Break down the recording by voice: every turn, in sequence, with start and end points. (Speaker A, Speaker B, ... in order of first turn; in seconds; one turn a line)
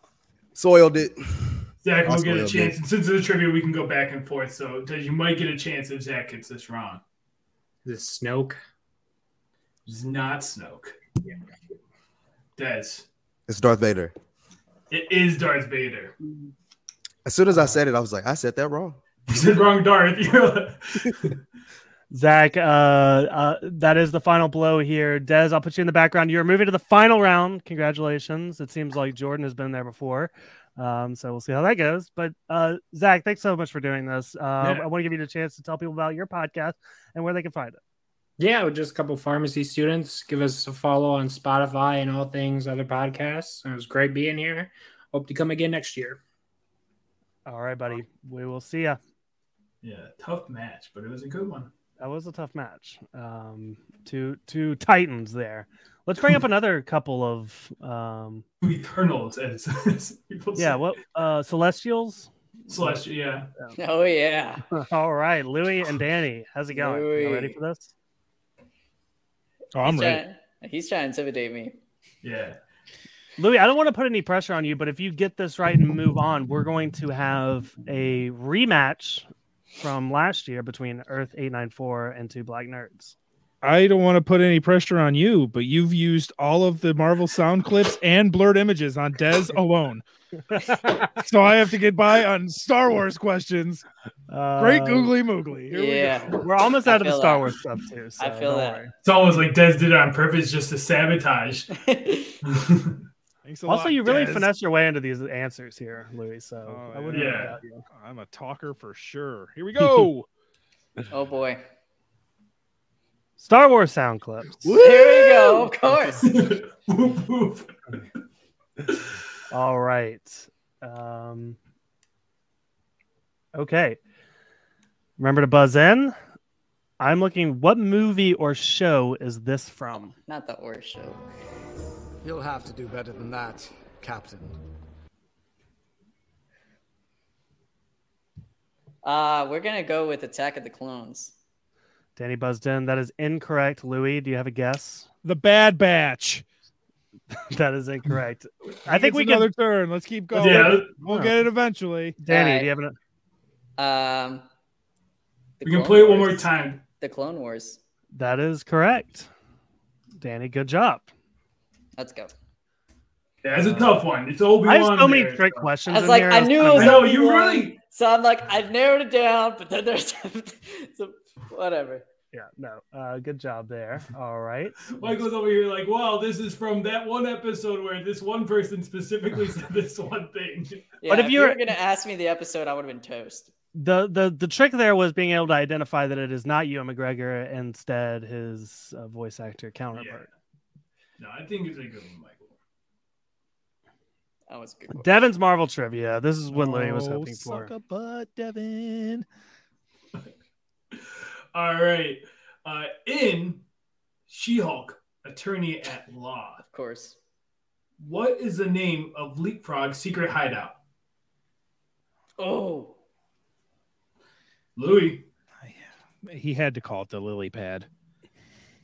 Speaker A: 0.6-2.8
Speaker B: 1.8-7.0
Speaker C: 7.8-8.6
Speaker B: 9.9-10.9
Speaker B: 12.6-13.1
Speaker A: 13.5-14.1
Speaker B: 14.9-16.1
Speaker A: 17.2-19.0
Speaker B: 19.3-21.3
Speaker D: 22.1-37.8
Speaker B: 34.6-34.9
Speaker C: 38.4-46.2
Speaker D: 47.5-49.0
Speaker B: 49.8-51.7
Speaker D: 52.0-58.4
Speaker B: 58.6-60.8
Speaker D: 60.5-63.0
Speaker B: 62.7-63.5
Speaker E: 63.8-64.6
Speaker D: 64.7-67.9
Speaker E: 66.7-67.6
Speaker F: 69.7-70.2
Speaker E: 69.8-71.7
Speaker B: 72.2-72.6
Speaker D: 73.4-79.3
Speaker D: 79.8-83.1
Speaker F: 83.6-90.0
Speaker D: 90.5-91.1
Speaker F: 91.2-93.8
Speaker D: 94.3-95.1
Speaker F: 94.6-96.4
Speaker E: 95.7-97.5
Speaker D: 96.4-98.9
Speaker E: 98.2-98.9
Speaker B: 99.0-101.7
Speaker E: 101.7-102.4
Speaker B: 102.4-103.0
Speaker F: 103.4-104.5
Speaker D: 103.7-107.8
Speaker F: 106.7-110.3
Speaker B: 107.1-107.5
Speaker E: 111.1-111.6
Speaker D: 113.4-114.7
Speaker F: 114.6-115.7
Speaker E: 114.8-116.3
Speaker B: 116.2-117.7
Speaker D: 119.5-121.6
Speaker D: 123.5-124.0
Speaker D: 125.2-126.1
Speaker D: 127.0-130.1
Speaker E: 129.9-131.2
Speaker G: 132.2-134.6
Speaker E: 139.0-141.3
Speaker D: 142.2-145.1
Speaker F: 145.2-146.4
Speaker D: 147.3-149.5
Speaker F: 148.9-152.2
Speaker B: 150.3-150.9
Speaker D: 150.4-151.3
Speaker D: 152.2-152.9
Speaker E: 152.2-152.7
Speaker E: 153.8-154.4
Speaker E: 155.6-157.8
Speaker B: 155.6-156.8
Speaker D: 158.1-159.3
Speaker D: 160.2-161.1
Speaker E: 161.9-162.3
Speaker B: 163.4-165.7
Speaker D: 163.6-164.0
Speaker D: 164.6-167.1
Speaker E: 165.9-172.0
Speaker B: 166.7-167.8
Speaker D: 172.3-175.2
Speaker B: 174.9-180.9
Speaker E: 181.0-183.5
Speaker D: 181.1-181.7
Speaker D: 183.7-190.3
Speaker B: 189.9-190.2
Speaker B: 191.2-192.6
Speaker E: 194.5-195.2
Speaker D: 194.9-197.7
Speaker F: 196.5-199.2
Speaker B: 200.9-203.6
Speaker B: 204.3-206.6
Speaker E: 206.7-207.2
Speaker B: 208.0-210.8
Speaker E: 212.4-212.9
Speaker B: 214.8-215.2
Speaker F: 215.6-217.9